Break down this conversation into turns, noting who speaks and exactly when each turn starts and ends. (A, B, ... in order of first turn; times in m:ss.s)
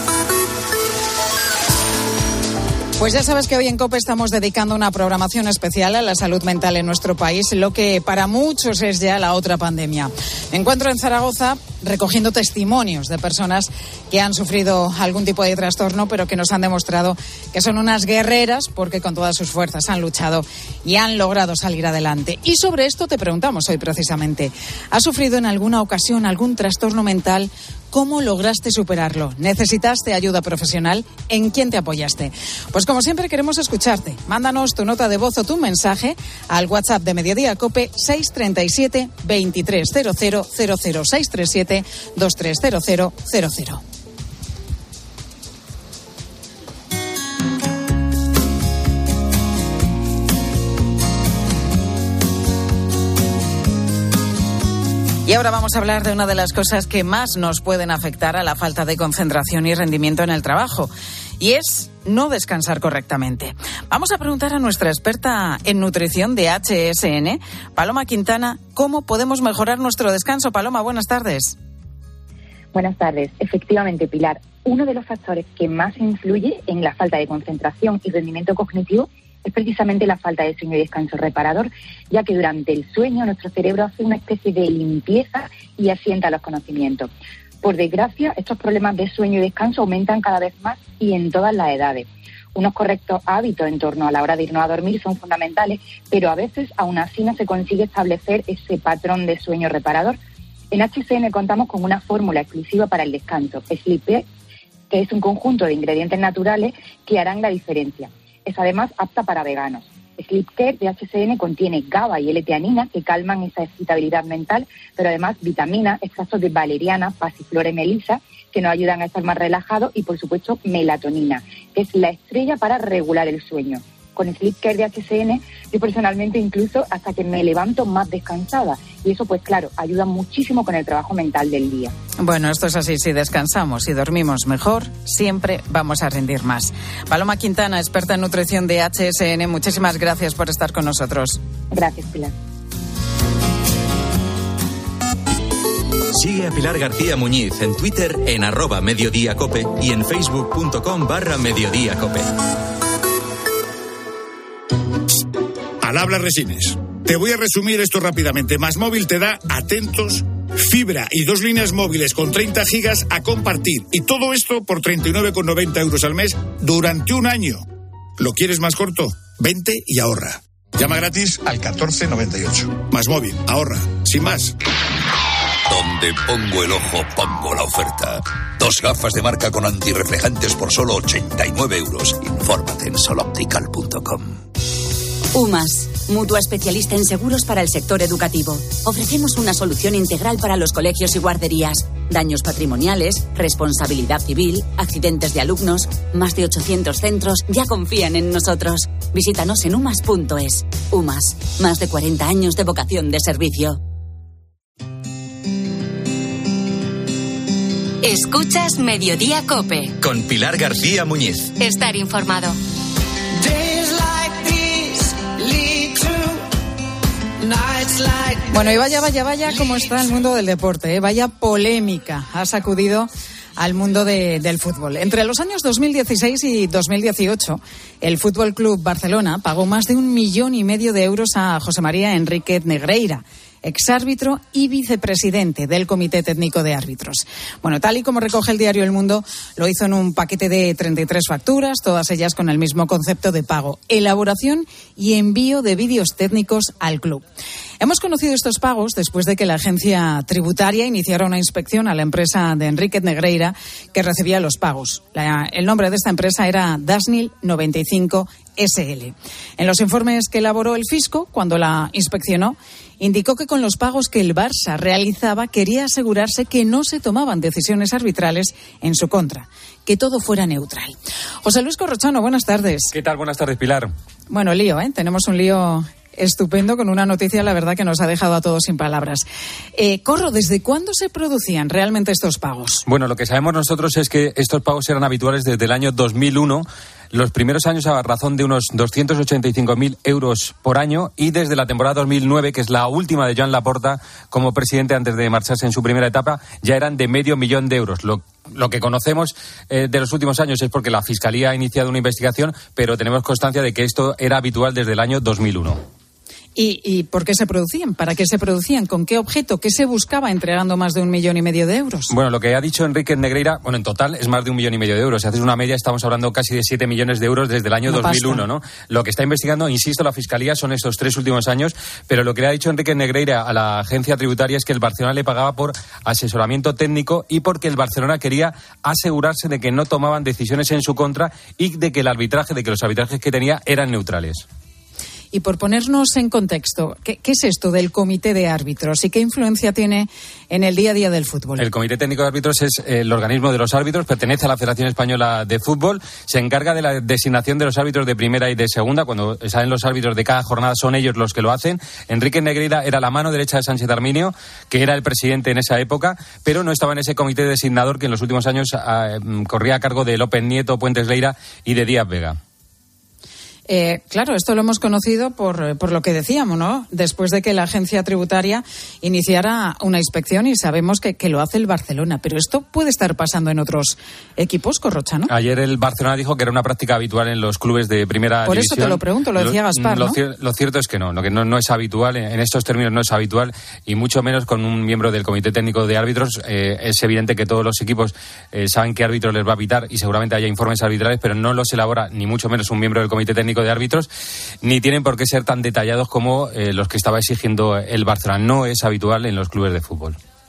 0:03.0-0:43.8 A
0:55.3-1:11.6 A
1:12.7-1:27.1 B
1:27.6-1:40.2 B
1:40.7-1:44.3 B
1:44.9-2:11.9 B
2:12.2-2:21.4 A
2:21.7-2:22.3 B
2:26.1-2:32.3 C
2:35.8-2:47.6 D
2:48.2-2:54.6 D
2:55.7-3:04.4 E
3:05.3-3:23.8 F
3:28.0-3:29.9 G
3:30.0-3:31.5 C
3:31.6-3:32.6 G
3:38.5-4:07.2 A
4:07.8-4:32.9 A
4:32.9-4:33.9 H
4:34.3-4:42.8 A
4:42.9-5:05.8 H
5:06.6-5:12.1 A
5:12.1-5:34.4 H
5:17.9-5:18.4 A
5:35.3-5:41.6 A
5:41.6-6:02.4 H
6:03.7-6:15.3 A
6:15.3-6:34.1 H
6:18.5-6:20.2 A
6:34.6-6:40.2 H